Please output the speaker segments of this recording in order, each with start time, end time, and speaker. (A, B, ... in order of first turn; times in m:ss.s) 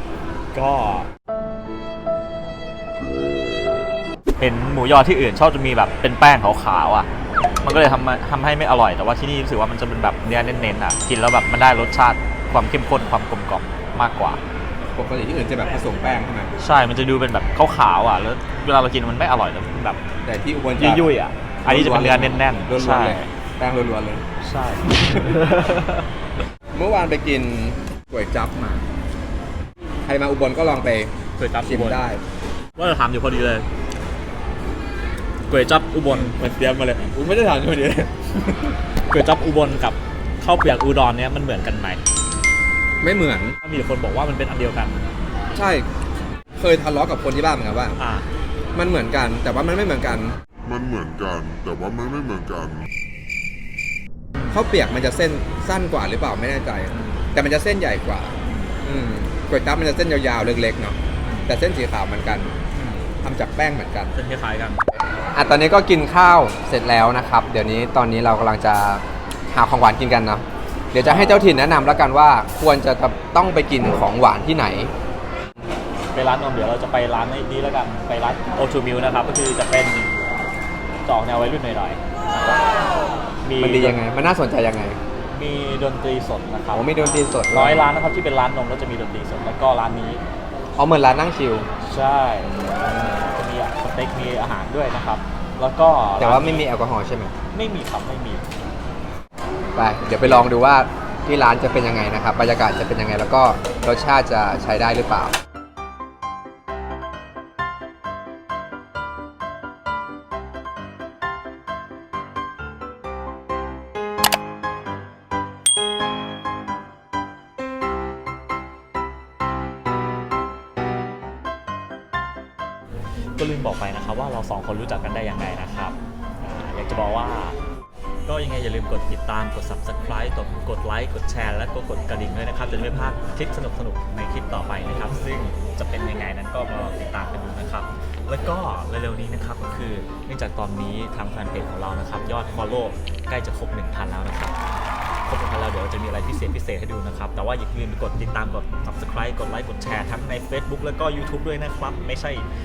0:00.5-0:01.1 A
0:04.4-0:07.1 A
0:07.6-0:14.4 A
0:14.9-0:16.5 B
0:16.6-0:20.0 A
0:20.2-0:21.1 B
0:20.8-0:23.3 A
0:21.6-0:24.2 B
0:24.4-0:26.0 A
0:26.7-0:28.9 B
0:30.1-0:31.1 B
0:31.4-0:32.0 A
0:31.6-0:32.2 B
0:32.8-0:33.7 A
0:35.5-0:36.4 A
0:36.1-0:38.8 B
0:39.1-0:42.0 A
0:43.0-0:43.6 B
0:43.6-0:45.0 A
0:45.5-0:45.9 B
0:46.6-0:48.0 B
0:48.0-0:48.3 A
0:48.8-0:50.4 B
0:50.6-0:52.9 C
0:54.5-1:02.5 B
0:58.5-0:58.8 A
1:01.2-1:01.5 A
1:02.8-1:03.0 A
1:03.2-1:04.1 B
1:04.2-1:04.8 A
1:05.3-1:14.9 B
1:11.0-1:11.5 A
1:16.1-1:20.1 A
1:21.0-1:22.7 A
1:23.4-1:24.0 A
1:23.6-1:25.0 B
1:25.3-1:30.2 A
1:26.7-1:27.9 B
1:30.8-1:31.7 B
1:31.8-1:36.6 A
1:36.2-1:37.3 B
1:37.5-1:38.4 A
1:39.8-1:45.4 B
2:03.4-2:07.6 A
2:08.3-2:24.6 A
2:25.3-2:32.4 A